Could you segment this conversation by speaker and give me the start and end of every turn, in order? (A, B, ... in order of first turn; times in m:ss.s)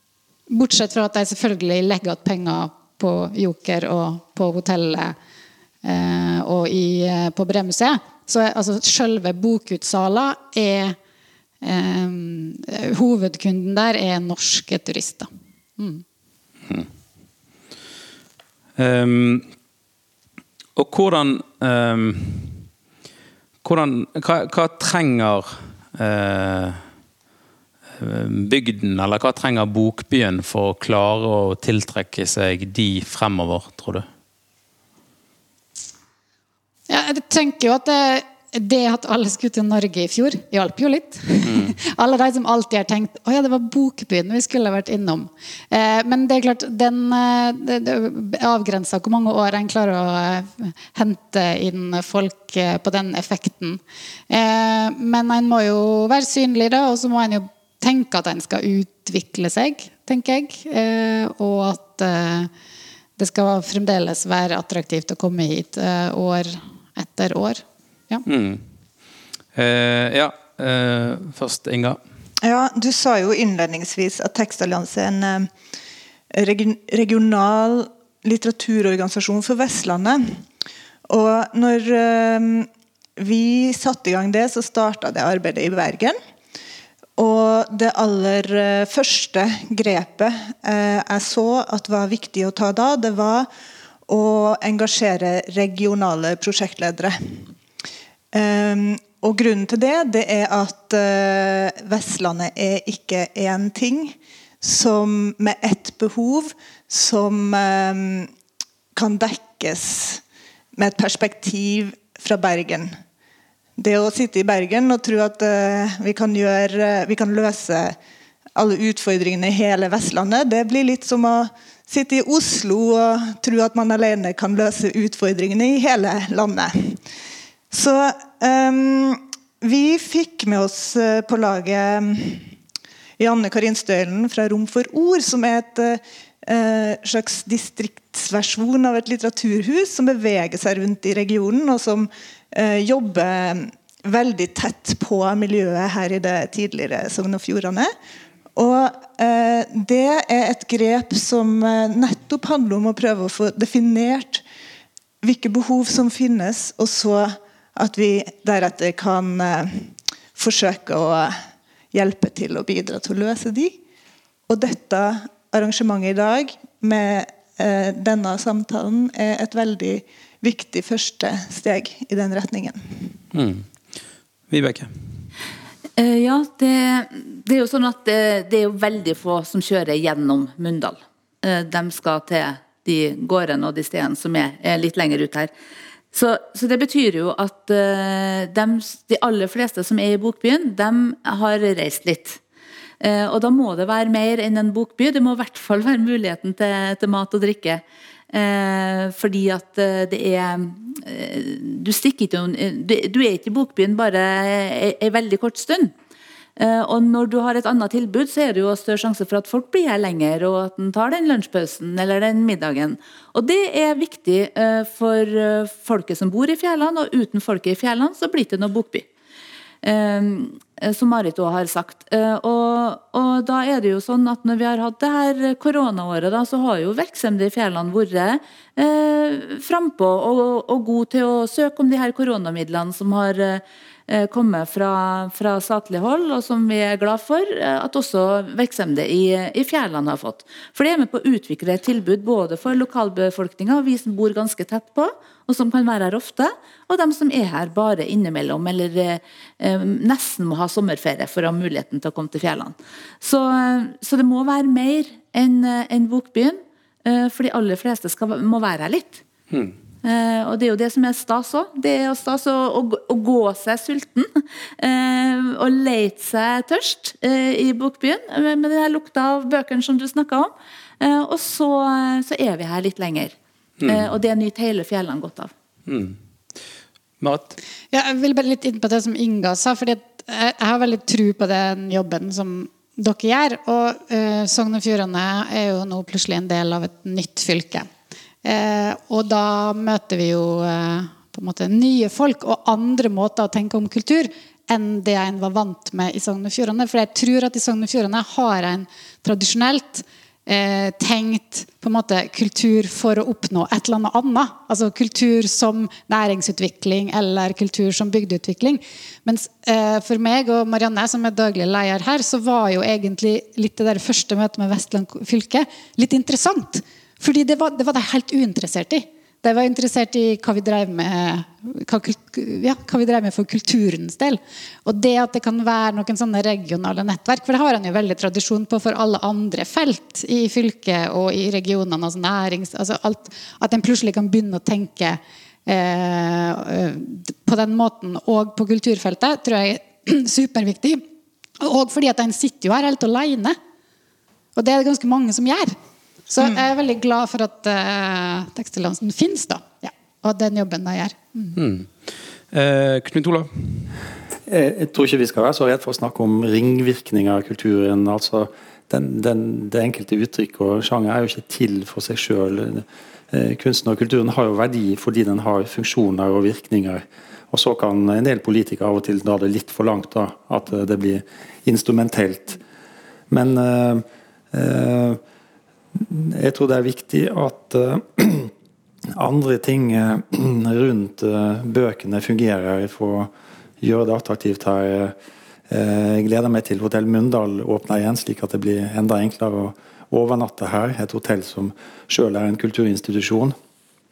0:00.5-0:05.2 A
0:05.8-0:11.0 A
0:11.6-0:16.0 A
0:18.8-0:19.5 B
0:20.8-0:22.6 B
0:23.6-0:26.8 B
0:28.0-0:34.1 B
0:36.9-1:02.5 A
0:41.4-0:41.8 B
1:03.2-1:08.2 A
1:08.3-1:08.6 B
1:09.6-1:12.0 B
1:12.4-1:15.5 C
1:16.3-1:20.4 C
1:21.1-1:26.2 C
1:27.2-1:33.5 C
1:34.1-1:37.5 C
1:38.3-1:48.3 C
1:49.0-1:50.2 C
1:50.8-1:53.0 C
1:53.8-1:58.0 C
1:58.6-2:07.0 C
2:07.7-2:12.5 C
2:13.2-2:27.9 C
2:28.6-2:34.4 C
2:35.2-2:41.4 C
2:41.9-2:43.8 C
2:44.5-2:53.1 C
2:53.3-2:53.7 B
2:54.5-2:54.9 B
2:56.0-3:05.5 D
3:06.1-3:12.4 D
3:13.0-3:25.9 D
3:26.6-3:39.1 D
3:39.8-4:19.2 D
4:20.0-4:33.4 D
4:33.8-4:34.1 B
4:33.9-4:35.5 D
4:35.9-4:36.2 B
4:37.2-4:37.6 B
4:37.9-4:47.9 A
4:48.4-5:41.0 A
5:41.6-5:43.6 A
5:44.6-5:45.8 A
5:46.3-5:51.6 A
5:51.6-5:51.9 B
5:52.5-5:53.9 B
5:54.5-6:12.6 E
6:13.3-6:15.2 E
6:16.0-6:18.5 E
6:19.2-6:23.3 E
6:23.8-6:25.1 E
6:25.7-6:33.6 E